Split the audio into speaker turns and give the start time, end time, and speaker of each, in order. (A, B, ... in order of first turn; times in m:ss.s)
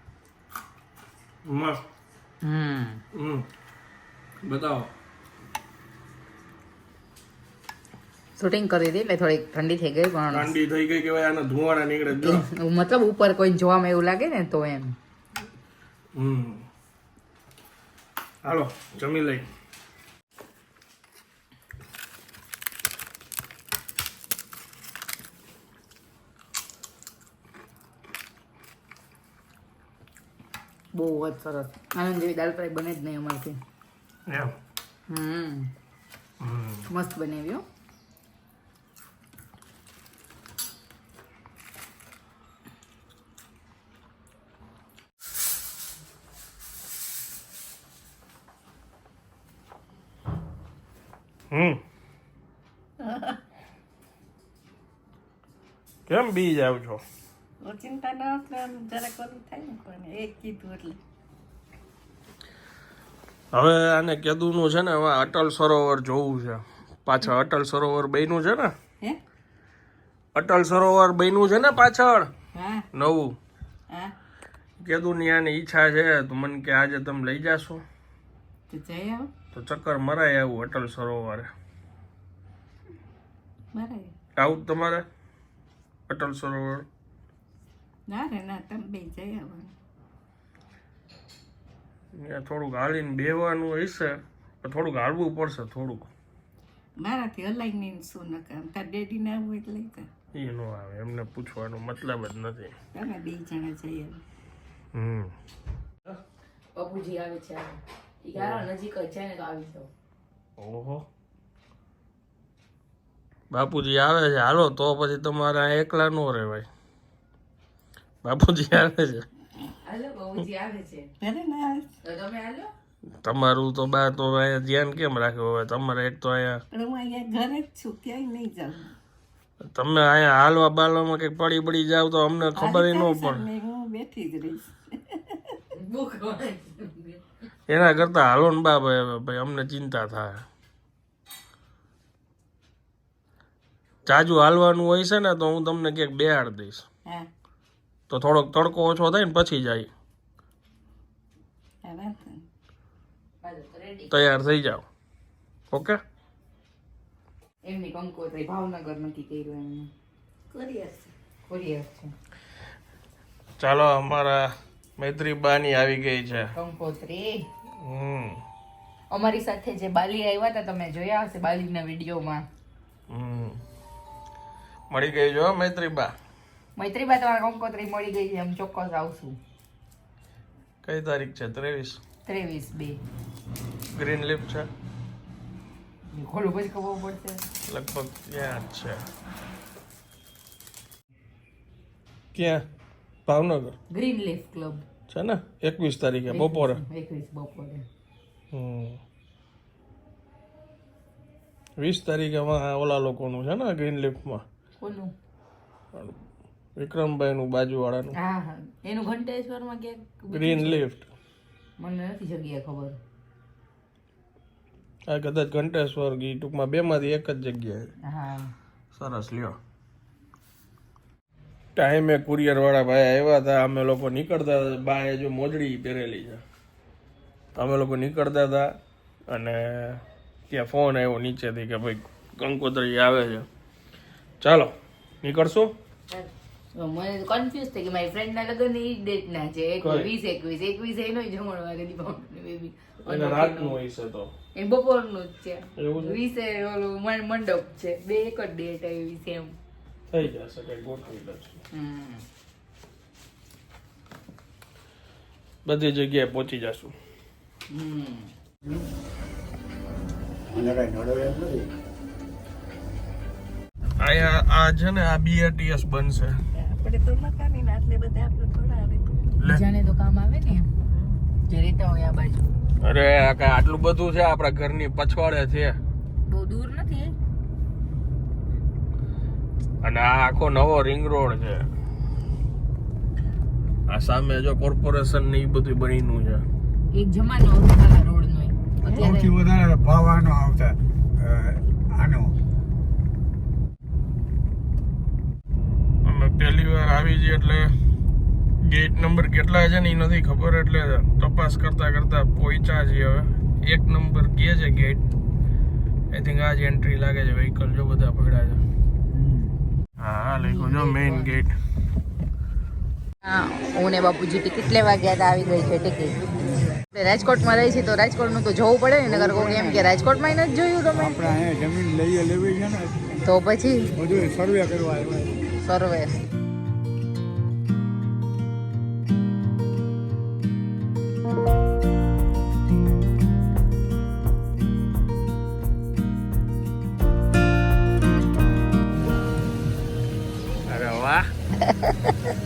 0:01.4-0:01.8 A
0:02.4-0:03.0 B
0:03.1-0:03.5 A
0:04.4-0:04.9 A
0:08.4-0:10.5 B
0:10.3-0:12.4 A
0:12.2-0:15.0 B
0:16.1-0:16.6 A
0:18.4-0:19.4 A
0:30.9-0:33.6 B
0:34.3-0:34.6 A
0:35.1-0:35.7 B
0:36.4-0:36.9 A
0:36.9-0:37.6 B
0:51.5-0:51.8 A
0:53.0-0:53.4 C
0:56.1-0:57.0 A
0:57.6-1:01.0 C
1:03.5-1:08.7 A
1:10.3-1:12.3 A
1:12.5-1:12.9 C
1:12.9-1:13.4 A
1:13.9-1:14.1 C
1:14.8-1:17.8 A
1:18.7-1:19.3 C
1:19.5-1:21.5 A
1:23.7-1:24.1 C
1:24.4-1:25.0 A
1:26.1-1:26.8 A
1:28.1-1:29.7 C
1:32.1-1:36.1 A
1:37.0-1:40.1 C
1:40.3-1:42.7 A
1:42.9-1:44.2 C
1:44.9-1:45.3 A
1:46.7-1:49.9 B
1:48.4-1:48.6 A
1:50.6-1:51.0 A
1:53.5-1:56.7 A
1:58.2-1:59.2 A
1:59.8-2:01.1 B
2:01.2-2:01.9 C
2:02.0-2:02.7 B
2:03.2-2:06.6 A
2:06.7-2:08.9 C
2:09.6-2:13.5 A
2:12.5-2:15.6 C
2:15.7-2:17.2 B
2:17.7-2:20.4 A
2:24.0-2:26.8 A
2:28.1-2:29.9 A
2:31.8-2:32.4 C
2:33.4-2:34.2 B
2:34.1-2:34.8 A
2:35.7-2:36.0 A
2:37.6-2:39.9 B
2:40.5-2:41.1 C
2:41.5-2:42.1 B
2:43.6-2:46.5 A
2:46.5-2:47.5 B
2:47.8-2:48.4 A
2:49.1-2:52.4 B
2:53.1-2:53.6 A
2:54.9-2:56.1 A
2:56.8-2:59.4 B
3:00.8-3:02.0 A
3:02.2-3:03.0 B
3:03.9-3:04.7 A
3:06.1-3:07.4 B
3:07.7-3:09.0 A
3:12.3-3:12.6 A
3:13.3-3:13.7 A
3:13.9-3:14.8 B
3:15.1-3:16.8 A
3:16.3-3:17.8 B
3:18.5-3:19.0 A
3:21.8-3:24.4 A
3:24.8-3:25.1 B
3:25.9-3:26.2 A
3:26.8-3:28.2 A
3:28.2-3:30.8 B
3:30.3-3:31.1 A
3:31.8-3:33.0 B
3:35.1-3:37.9 A
3:38.0-3:38.5 B
3:38.9-3:39.6 A
3:41.8-3:46.4 A
3:47.5-3:48.7 A
3:49.3-3:53.4 A
3:54.4-3:55.7 A
3:56.1-4:03.8 B
3:59.8-4:00.1 A
4:03.0-4:04.3 A
4:04.6-4:09.5 B
4:05.8-4:06.2 A
4:10.1-4:11.6 A
4:11.7-4:12.2 B
4:15.6-4:16.9 A
4:17.7-4:18.3 B
4:20.5-4:21.7 D
4:24.0-4:26.4 A
4:26.5-4:29.2 C
4:29.4-4:30.7 B
4:31.4-4:32.5 B
4:32.8-4:35.8 A
4:36.2-4:37.1 B
4:39.8-4:41.7 A
4:43.9-4:46.4 A
4:46.9-4:49.4 B
4:48.9-4:52.3 D
4:56.0-4:57.7 A
4:58.6-5:05.0 A
5:06.1-5:08.6 A
5:09.1-5:09.5 D
5:10.0-5:11.5 A
5:10.3-5:11.4 B
5:13.2-5:16.2 B
5:16.9-5:21.4 B
5:19.0-5:19.9 D
5:20.9-5:23.1 D
5:23.2-5:23.9 B
5:23.9-5:25.4 D
5:25.6-5:26.2 B
5:40.7-5:41.3 A
5:41.8-5:42.1 C